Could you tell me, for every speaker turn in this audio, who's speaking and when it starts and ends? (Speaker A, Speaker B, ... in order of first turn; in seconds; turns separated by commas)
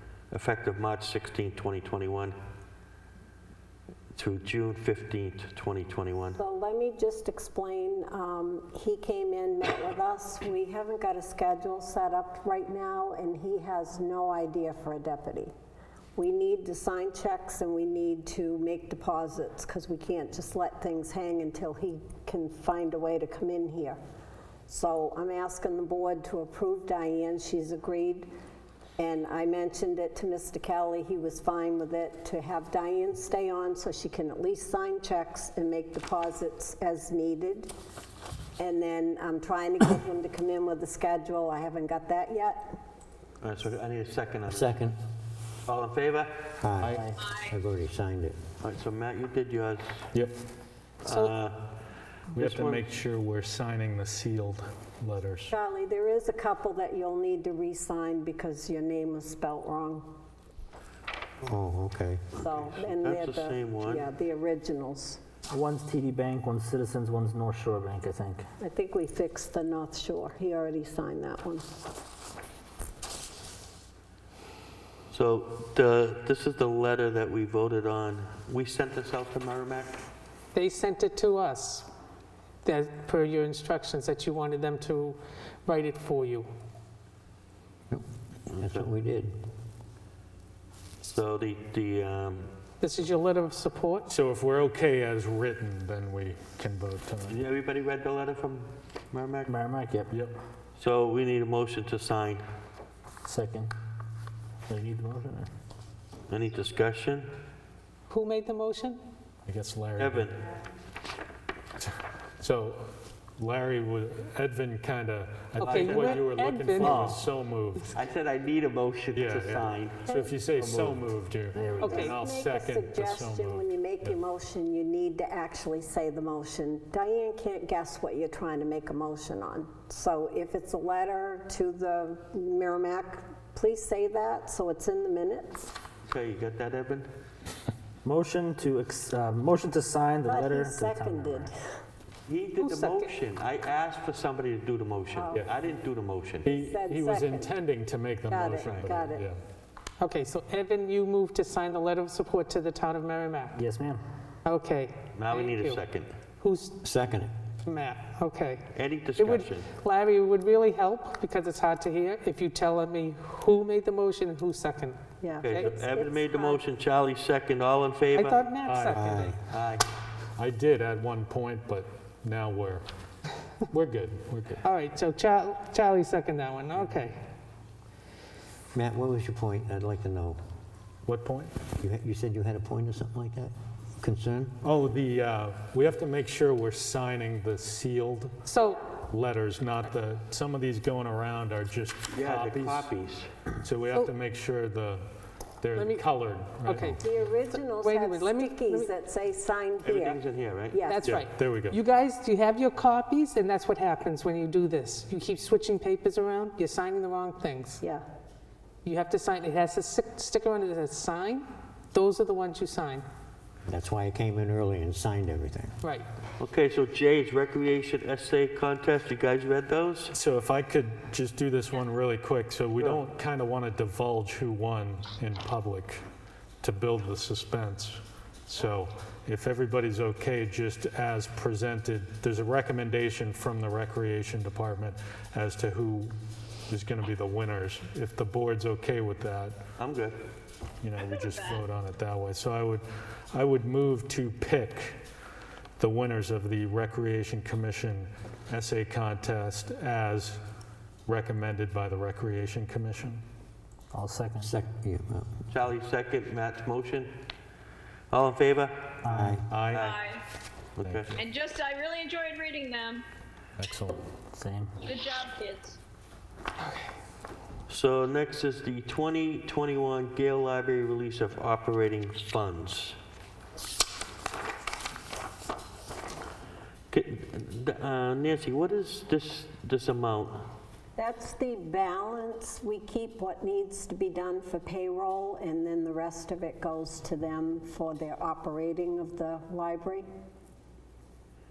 Speaker A: 0.3-2.4, Speaker A: 4.1-6.4, Speaker B: 6.4-15.5, Speaker B: 16.1-24.0, Speaker B: 24.7-28.3, Speaker B: 29.0-37.7, Speaker B: 38.6-42.7, Speaker A: 43.4-44.8, Speaker C: 44.5-45.0, Speaker A: 45.6-46.5, Speaker C: 46.6-48.4, Speaker A: 48.6-50.0, Speaker A: 51.0-51.7, Speaker A: 52.3-52.9, Speaker D: 52.3-55.5, Speaker B: 55.5-60.1, Speaker C: 61.4-62.3, Speaker B: 62.4-65.2, Speaker A: 62.5-64.0, Speaker E: 65.5-68.4, Speaker B: 68.6-71.7, Speaker A: 75.1-80.0, Speaker F: 80.5-81.9, Speaker F: 82.6-86.5, Speaker C: 87.9-89.3, Speaker A: 88.5-88.9, Speaker A: 91.0-92.5, Speaker F: 92.8-94.1, Speaker D: 94.1-97.4, Speaker A: 97.3-99.5, Speaker E: 99.5-100.1, Speaker A: 100.8-102.4, Speaker E: 103.3-103.7, Speaker E: 104.7-105.5, Speaker A: 106.3-107.3, Speaker F: 108.1-109.0, Speaker D: 109.5-110.3, Speaker A: 110.0-110.5, Speaker D: 111.8-117.9, Speaker F: 115.6-117.1, Speaker A: 115.6-116.3, Speaker A: 116.8-117.1, Speaker E: 116.9-117.2, Speaker A: 117.9-121.0, Speaker D: 119.1-124.2, Speaker E: 121.6-121.9, Speaker B: 121.7-135.7, Speaker F: 121.8-122.2, Speaker A: 136.1-137.1, Speaker E: 138.0-141.5, Speaker B: 140.2-141.7, Speaker A: 142.3-146.5, Speaker F: 142.6-143.1, Speaker B: 145.1-145.5, Speaker D: 146.4-149.4, Speaker B: 146.5-147.6, Speaker B: 148.2-149.3, Speaker A: 148.6-149.0, Speaker F: 150.0-153.6, Speaker E: 153.6-153.9, Speaker F: 154.4-155.8, Speaker A: 155.1-156.1, Speaker F: 156.4-156.8, Speaker C: 156.8-157.3, Speaker F: 157.6-158.7, Speaker A: 158.7-159.7, Speaker F: 159.2-165.7, Speaker B: 165.2-166.6, Speaker A: 165.4-168.4, Speaker F: 168.1-169.3, Speaker D: 168.7-169.3, Speaker C: 168.9-169.4, Speaker A: 169.5-169.8, Speaker D: 170.4-172.8, Speaker D: 173.7-174.6, Speaker F: 174.6-177.2, Speaker C: 178.7-180.4, Speaker D: 181.1-181.5, Speaker C: 181.8-184.5, Speaker D: 184.6-188.4, Speaker F: 188.4-188.9, Speaker D: 189.1-192.9, Speaker A: 192.1-193.3, Speaker D: 193.6-195.0, Speaker D: 195.6-197.0, Speaker F: 195.7-196.1, Speaker F: 196.6-198.9, Speaker B: 197.0-201.1, Speaker A: 199.8-200.9, Speaker F: 200.9-207.8, Speaker D: 201.0-201.8, Speaker F: 208.8-213.0, Speaker C: 213.7-215.7, Speaker A: 216.4-220.1, Speaker D: 220.1-226.0, Speaker A: 222.8-223.0, Speaker D: 226.6-236.1, Speaker D: 236.7-239.6, Speaker A: 239.8-240.2, Speaker D: 240.8-245.0, Speaker D: 245.8-250.4, Speaker D: 251.1-253.2, Speaker E: 253.9-254.5, Speaker C: 254.4-255.3, Speaker A: 255.5-257.1, Speaker A: 258.1-259.0, Speaker C: 259.1-259.4, Speaker E: 259.1-259.4, Speaker D: 259.4-260.0, Speaker A: 259.7-260.0, Speaker A: 260.8-261.2, Speaker D: 260.8-261.2, Speaker G: 261.2-262.7, Speaker D: 263.6-264.0, Speaker E: 264.3-264.7, Speaker G: 264.9-265.6, Speaker A: 267.7-272.9, Speaker A: 276.9-280.4, Speaker B: 280.9-290.1